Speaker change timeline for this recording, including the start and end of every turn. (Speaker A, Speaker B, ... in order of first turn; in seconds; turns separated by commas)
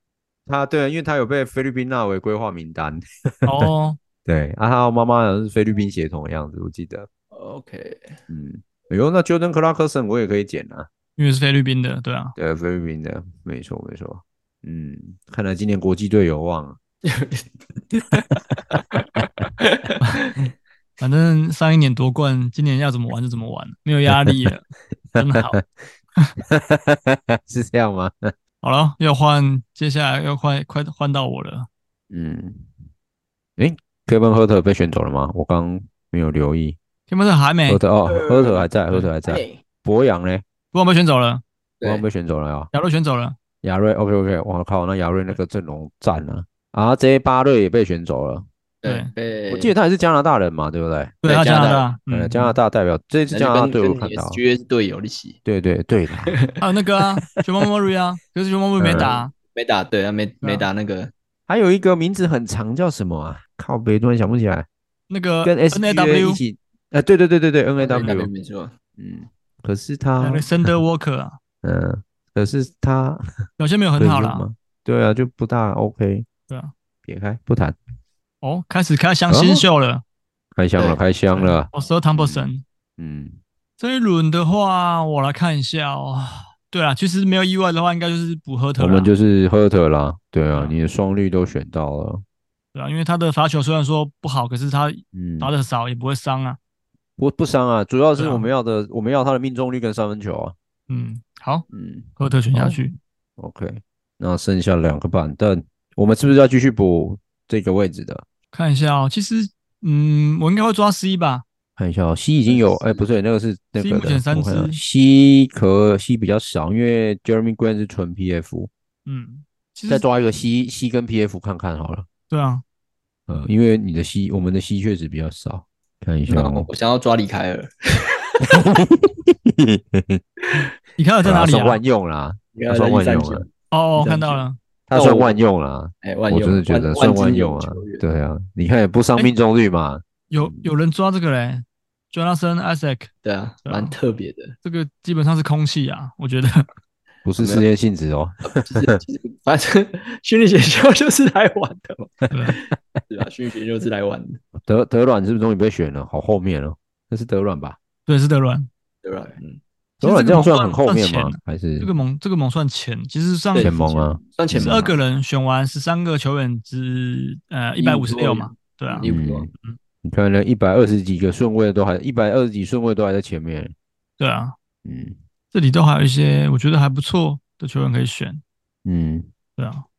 Speaker A: 0.5-3.7, Speaker B: 3.5-4.0, Speaker A: 4.2-7.1, Speaker C: 7.3-8.2, Speaker A: 8.3-10.9, Speaker B: 11.2-12.4, Speaker A: 12.4-16.8, Speaker C: 17.0-20.3, Speaker A: 18.7-19.2, Speaker B: 21.0-24.6, Speaker A: 24.1-24.5, Speaker A: 25.1-25.6, Speaker B: 25.2-25.6, Speaker A: 26.4-28.3, Speaker B: 28.6-31.7, Speaker A: 32.1-32.7, Speaker A: 33.6-36.8, Speaker B: 37.1-37.8, Speaker A: 37.7-40.4, Speaker C: 38.0-38.7, Speaker C: 39.2-39.6, Speaker B: 40.7-41.4, Speaker A: 41.8-42.7, Speaker B: 42.7-43.4, Speaker A: 43.6-48.5, Speaker C: 48.8-49.7, Speaker B: 48.9-49.1, Speaker A: 49.5-51.2, Speaker B: 51.2-52.6, Speaker C: 51.2-51.9, Speaker A: 52.1-54.4, Speaker C: 53.3-55.4, Speaker A: 55.5-56.4, Speaker C: 56.3-56.6, Speaker B: 56.6-59.3, Speaker A: 58.8-59.1, Speaker C: 59.0-61.1, Speaker B: 60.4-60.7, Speaker A: 61.5-64.7, Speaker B: 65.1-66.4, Speaker A: 65.4-68.3, Speaker C: 67.8-68.7, Speaker A: 69.0-70.7, Speaker B: 70.2-71.4, Speaker A: 71.6-73.2, Speaker B: 73.6-74.5, Speaker A: 74.0-76.3, Speaker A: 77.0-77.8, Speaker B: 78.4-80.0, Speaker A: 79.3-79.7, Speaker A: 80.5-82.5, Speaker B: 81.3-82.6, Speaker A: 83.0-83.4, Speaker B: 83.8-89.1, Speaker A: 88.8-92.2, Speaker B: 92.7-96.6, Speaker A: 95.1-95.5, Speaker A: 97.2-100.5, Speaker B: 98.2-98.5, Speaker B: 100.9-101.7, Speaker A: 101.7-102.9, Speaker B: 102.2-103.0, Speaker A: 103.4-108.2, Speaker B: 108.5-111.5, Speaker A: 111.8-118.7, Speaker C: 112.5-113.1, Speaker B: 113.8-114.8, Speaker B: 119.1-120.0, Speaker A: 119.9-122.1, Speaker B: 122.3-122.6, Speaker A: 123.3-126.7, Speaker C: 126.3-128.6, Speaker A: 128.5-130.2, Speaker C: 130.4-130.7, Speaker B: 131.0-131.8, Speaker A: 131.2-133.5, Speaker C: 132.6-135.4, Speaker B: 133.7-134.6, Speaker A: 134.9-140.7, Speaker C: 136.0-138.0, Speaker B: 140.3-143.1, Speaker C: 143.2-144.6, Speaker B: 143.7-143.9, Speaker B: 144.6-146.7, Speaker A: 147.2-149.0, Speaker C: 147.4-147.7, Speaker C: 148.5-154.4, Speaker B: 152.3-152.6, Speaker A: 154.6-157.8, Speaker B: 158.1-158.7, Speaker C: 159.0-159.6, Speaker A: 160.0-161.9, Speaker B: 160.0-163.7, Speaker C: 163.5-164.9, Speaker A: 163.6-164.9, Speaker B: 164.6-169.1, Speaker C: 167.8-169.5, Speaker A: 169.0-169.5, Speaker A: 170.0-173.7, Speaker B: 174.2-174.6, Speaker A: 174.8-175.2, Speaker B: 175.5-178.4, Speaker A: 178.8-179.3, Speaker B: 179.6-179.9